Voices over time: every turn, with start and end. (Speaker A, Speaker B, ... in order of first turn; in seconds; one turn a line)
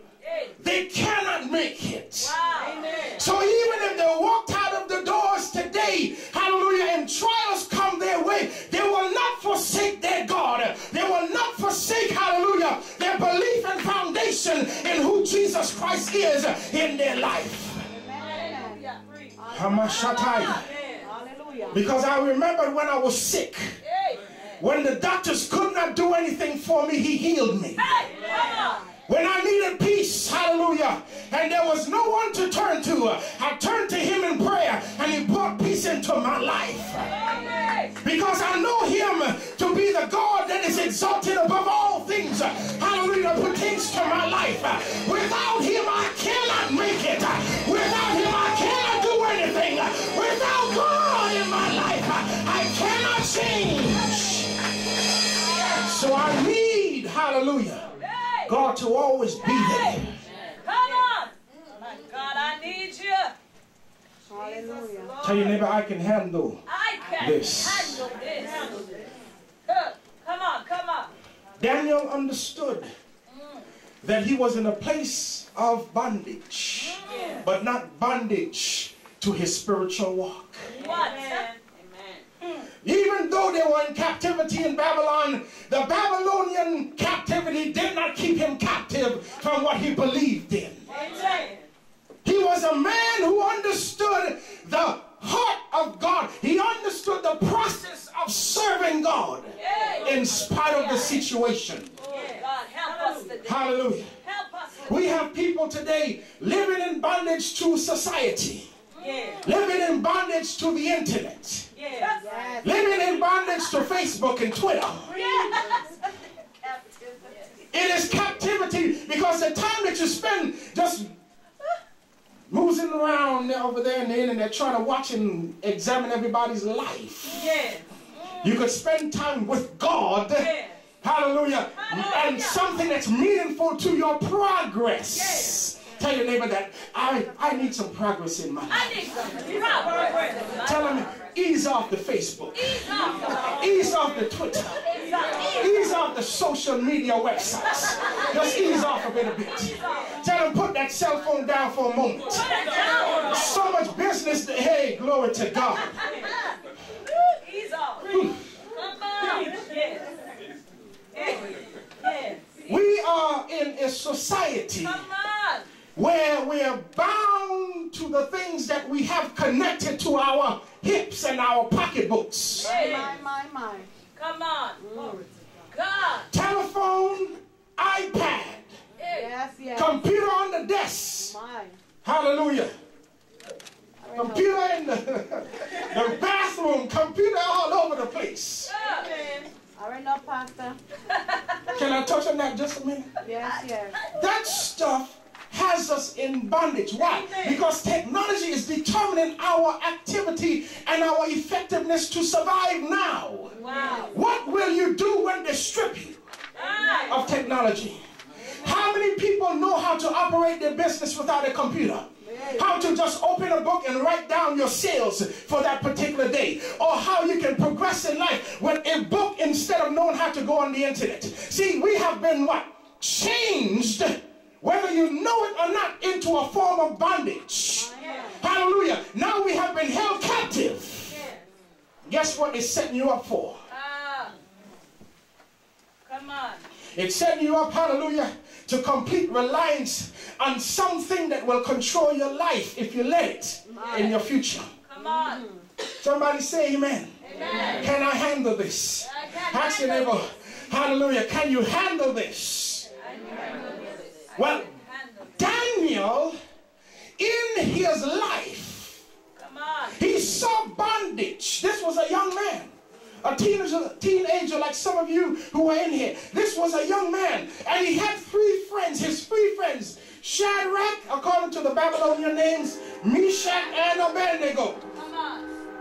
Speaker A: 0.2-0.5
Speaker B: 0.6-2.3
Speaker A: 2.2-3.3
Speaker B: 3.1-17.9
Speaker C: 17.9-18.8
Speaker A: 18.2-21.1
Speaker C: 19.4-20.0
Speaker B: 19.5-20.7
Speaker C: 21.0-21.8
Speaker B: 21.7-23.8
Speaker A: 23.8-24.4
Speaker B: 24.5-28.1
Speaker A: 27.8-28.8
Speaker C: 28.2-28.8
Speaker B: 29.1-37.1
Speaker A: 37.0-37.9
Speaker B: 37.9-54.5
Speaker A: 55.5-55.8
Speaker B: 55.5-57.8
Speaker A: 58.0-58.5
Speaker B: 58.4-60.2
Speaker A: 59.4-60.0
Speaker A: 60.6-63.3
Speaker C: 64.3-65.2
Speaker A: 64.5-65.6
Speaker B: 65.2-66.6
Speaker A: 66.7-69.0
Speaker B: 67.2-68.1
Speaker A: 69.7-71.1
Speaker B: 71.6-72.9
Speaker A: 73.3-73.6
Speaker B: 74.0-80.7
Speaker A: 76.8-77.4
Speaker A: 80.7-81.6
Speaker B: 82.8-91.0
Speaker A: 90.9-91.6
Speaker B: 92.2-101.9
Speaker A: 99.6-101.2
Speaker A: 102.0-103.5
Speaker B: 103.4-104.1
Speaker A: 104.2-105.0
Speaker B: 104.8-108.7
Speaker A: 108.9-109.5
Speaker B: 109.4-111.7
Speaker A: 111.8-112.6
Speaker C: 112.2-112.9
Speaker B: 112.6-115.2
Speaker A: 115.1-115.8
Speaker C: 115.2-115.8
Speaker C: 116.7-117.2
Speaker B: 117.7-121.1
Speaker B: 122.5-127.5
Speaker A: 127.3-128.4
Speaker B: 128.4-139.0
Speaker A: 130.3-130.7
Speaker A: 131.7-132.8
Speaker A: 135.3-135.5
Speaker A: 138.7-140.9
Speaker B: 140.6-156.1
Speaker A: 142.5-143.6
Speaker A: 144.9-145.6
Speaker A: 152.4-153.5
Speaker A: 156.0-160.1
Speaker B: 158.0-158.5
Speaker A: 161.1-162.6
Speaker B: 162.6-165.1
Speaker A: 164.8-165.7
Speaker B: 165.9-172.8
Speaker A: 172.6-173.2
Speaker C: 172.6-173.9
Speaker A: 174.1-176.3
Speaker C: 174.8-175.3
Speaker B: 176.3-178.7
Speaker A: 179.0-179.3
Speaker C: 179.1-180.0
Speaker B: 179.7-181.3
Speaker C: 181.2-181.8
Speaker B: 182.0-182.7
Speaker C: 184.0-184.5
Speaker B: 184.1-188.7
Speaker A: 188.7-189.5
Speaker C: 189.8-190.8
Speaker A: 191.1-191.6
Speaker B: 191.6-193.2
Speaker C: 193.2-194.0
Speaker B: 194.0-206.2
Speaker A: 197.0-197.6
Speaker C: 203.5-204.1
Speaker A: 203.6-204.1
Speaker A: 206.5-207.2
Speaker B: 207.0-231.2
Speaker C: 212.2-212.8
Speaker C: 227.7-228.4
Speaker A: 228.0-228.3
Speaker B: 232.1-233.6
Speaker A: 233.7-234.4
Speaker A: 236.0-236.7
Speaker B: 236.9-244.7
Speaker A: 244.8-245.4
Speaker C: 245.2-245.6
Speaker B: 245.9-247.1
Speaker A: 247.2-247.8
Speaker B: 247.7-252.9
Speaker A: 249.0-250.2
Speaker A: 253.1-255.3
Speaker B: 254.3-256.4
Speaker B: 257.2-259.0
Speaker A: 259.4-259.9
Speaker B: 259.9-274.8
Speaker A: 274.9-275.5